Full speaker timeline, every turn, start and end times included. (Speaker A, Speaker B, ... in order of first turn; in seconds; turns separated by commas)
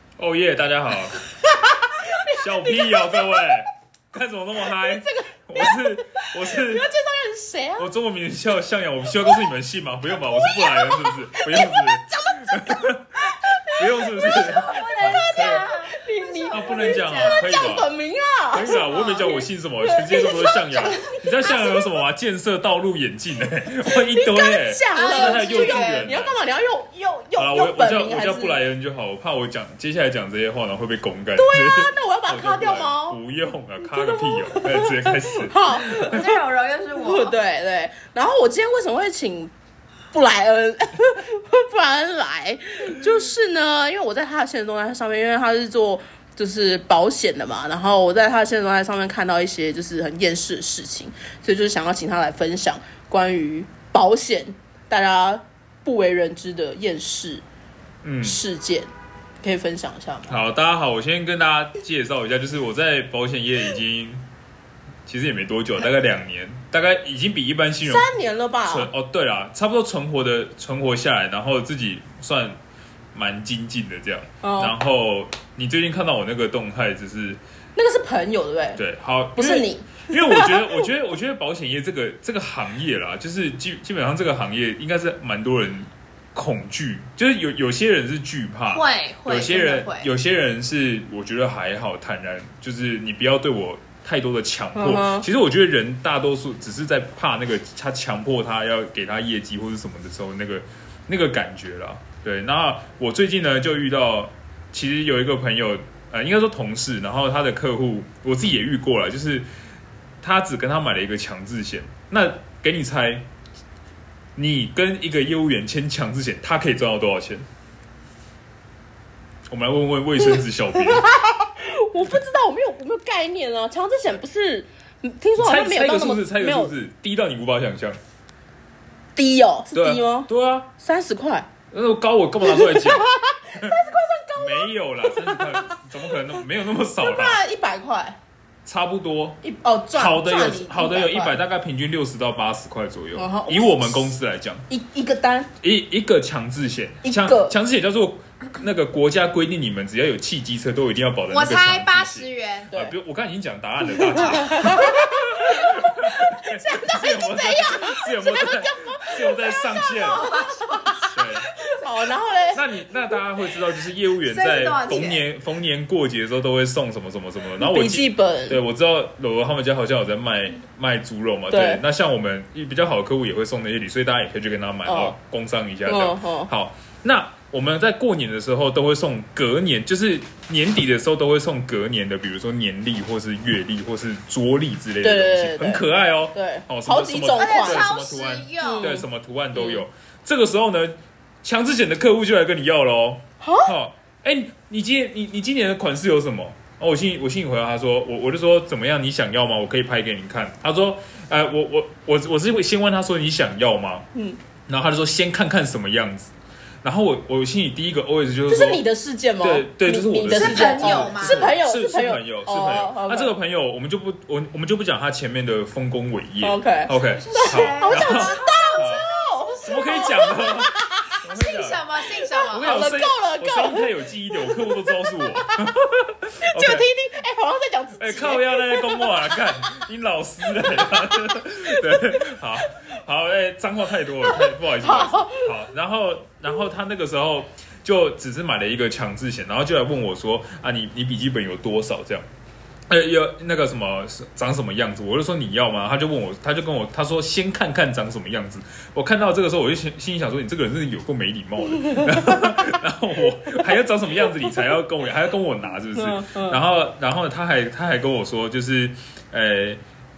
Speaker A: 0.2-1.2, Speaker B: 1.6-3.5, Speaker A: 2.3-6.8, Speaker B: 4.8-7.9, Speaker A: 7.8-13.2, Speaker B: 10.1-21.9, Speaker A: 13.7-15.6, Speaker C: 14.3-17.7, Speaker A: 16.5-17.9, Speaker A: 18.5-26.4, Speaker B: 23.9-28.6, Speaker C: 24.9-26.1, Speaker A: 27.4-36.3, Speaker B: 31.3-33.2, Speaker B: 33.9-36.4, Speaker C: 35.9-37.4, Speaker B: 37.0-39.5, Speaker B: 40.1-57.4, Speaker A: 58.0-58.4, Speaker B: 58.2-58.9, Speaker B: 59.4-60.4, Speaker A: 60.3-64.2, Speaker A: 65.0-68.1, Speaker B: 67.8-68.9, Speaker A: 68.7-72.6, Speaker A: 73.1-77.4, Speaker B: 74.4-74.7, Speaker B: 77.8-78.8, Speaker A: 78.8-109.5, Speaker B: 79.3-80.8, Speaker C: 88.7-90.1, Speaker B: 94.7-95.2, Speaker A: 110.2-113.2, Speaker A: 114.3-117.5, Speaker A: 119.5-121.0, Speaker B: 120.2-126.7, Speaker A: 125.4-128.0, Speaker B: 129.2-131.5, Speaker A: 129.7-130.7, Speaker A: 131.7-133.8, Speaker B: 132.4-135.8, Speaker A: 134.3-137.4, Speaker B: 137.0-138.2, Speaker A: 138.6-139.4, Speaker B: 139.4-141.4, Speaker A: 139.9-144.6, Speaker B: 143.2-144.1, Speaker B: 144.7-145.5, Speaker A: 145.6-160.3, Speaker B: 147.0-147.5, Speaker C: 151.3-152.8, Speaker B: 153.9-161.1, Speaker C: 160.1-161.1, Speaker A: 161.1-161.5, Speaker B: 161.8-162.6, Speaker A: 162.5-204.1, Speaker C: 164.2-165.2, Speaker B: 167.6-168.6, Speaker B: 171.5-171.8, Speaker B: 174.8-175.1, Speaker B: 175.8-176.5, Speaker B: 185.0-187.9, Speaker C: 187.3-188.9, Speaker B: 188.6-189.8, Speaker B: 193.4-193.7, Speaker A: 204.7-206.3, Speaker A: 206.8-208.8, Speaker B: 208.5-213.3, Speaker A: 209.4-219.0, Speaker C: 210.3-211.6, Speaker B: 216.4-221.1, Speaker C: 217.0-219.1, Speaker A: 219.6-221.8, Speaker C: 221.2-222.8, Speaker B: 222.3-225.7, Speaker A: 222.5-226.8, Speaker B: 226.4-229.8, Speaker A: 228.0-242.3, Speaker B: 230.5-231.2, Speaker B: 231.7-232.3, Speaker B: 234.2-235.5, Speaker A: 242.9-259.8, Speaker B: 251.8-252.4, Speaker B: 254.2-254.6, Speaker B: 255.9-256.6